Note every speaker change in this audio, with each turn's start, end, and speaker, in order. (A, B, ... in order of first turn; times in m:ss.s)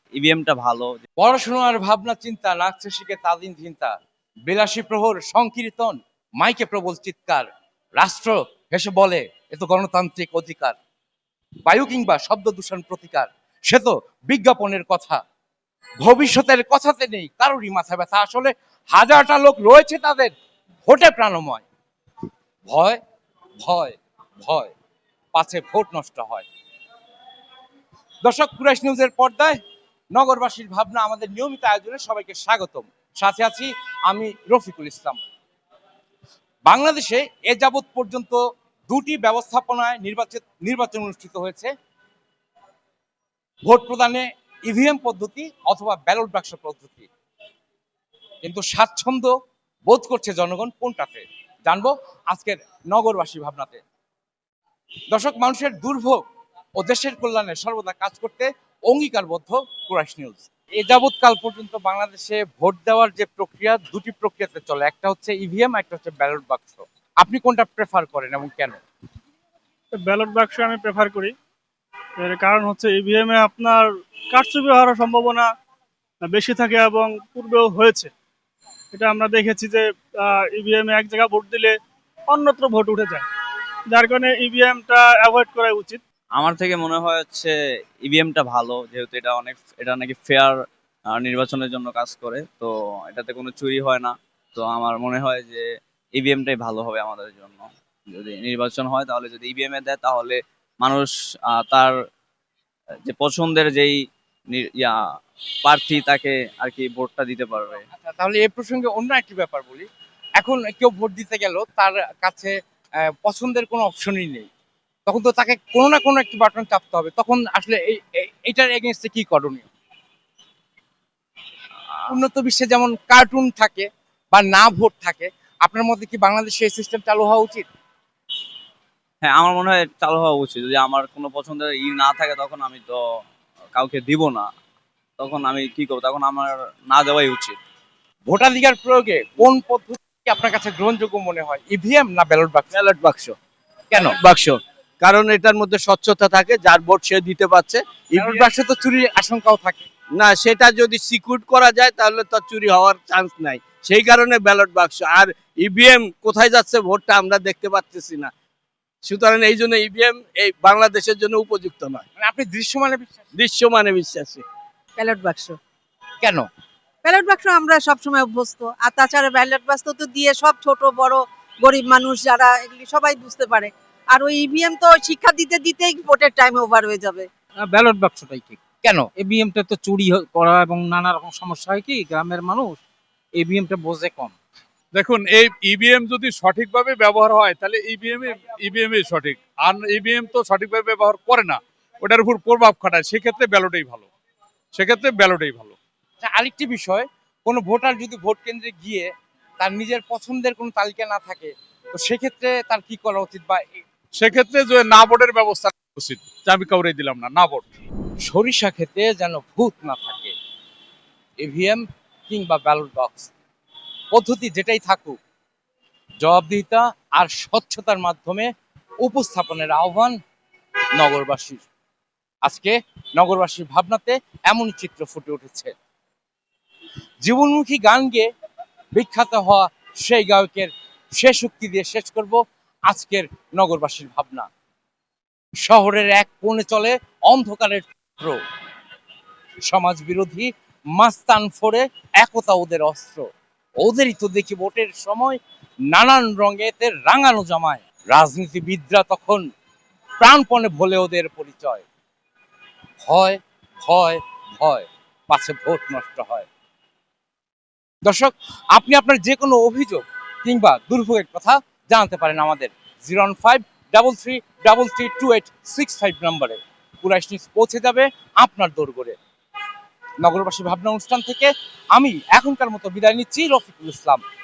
0:00.1-0:01.0 A
0:01.2-0:04.0 B
0:04.5-0:10.8 B
0:11.7-0:15.2 B
0:16.0-0:20.3 B
0:20.9-0:21.6 B
0:22.7-0:23.0 B
0:23.6-0:24.7 B
0:25.3-0:26.4 B
0:28.2-0:29.6 B
0:30.1-0:35.2 B
0:36.6-0:41.7 B
0:43.6-0:47.1 B
0:48.4-0:49.3 B
0:49.9-0:53.8 B
0:55.1-0:56.2 B
0:56.8-1:08.8 B
1:09.9-1:11.3 C
1:12.2-1:15.5 C
1:16.2-1:18.1 C
1:18.9-1:21.8 C
1:22.3-1:23.3 C
1:23.9-1:26.0 C
1:26.3-1:27.5 A
1:28.0-1:30.5 A
1:31.1-1:35.6 A
1:36.2-1:41.9 A
1:43.0-1:44.0 A
1:44.5-1:45.0 A
1:45.6-1:47.9 A
1:47.9-1:49.9 B
1:50.4-1:54.5 B
1:55.1-1:59.7 B
2:02.1-2:07.7 B
2:09.2-2:13.0 A
2:13.8-2:14.5 A
2:15.2-2:17.6 A
2:18.3-2:22.8 B
2:22.7-2:23.3 D
2:23.9-2:24.2 B
2:24.0-2:28.5 D
2:28.2-2:29.9 B
2:30.2-2:38.3 D
2:39.0-2:42.1 D
2:42.2-2:43.2 B
2:43.4-2:44.4 D
2:45.0-2:45.6 E
2:46.2-2:46.5 B
2:47.0-2:57.3 E
2:57.6-2:58.6 F
2:58.8-2:59.1 B
2:59.2-3:02.8 F
3:03.3-3:04.3 F
3:04.9-3:14.1 G
3:14.7-3:15.8 G
3:16.2-3:23.8 B
3:24.2-3:27.7 G
3:28.2-3:30.3 B
3:31.4-3:33.3 B
3:34.1-3:35.2 B
3:36.2-3:38.5 B
3:39.0-3:40.2 B
3:41.0-3:41.7 B
3:42.4-3:45.7 B
3:47.2-3:48.3 B
3:48.9-3:54.5 B
3:55.6-3:58.4 B
3:59.7-4:03.2 B
4:03.8-4:05.4 B
4:05.9-4:09.4 B
4:10.2-4:11.8 B
4:13.0-4:16.4 B
4:18.0-4:29.2 B
4:30.2-4:34.2 B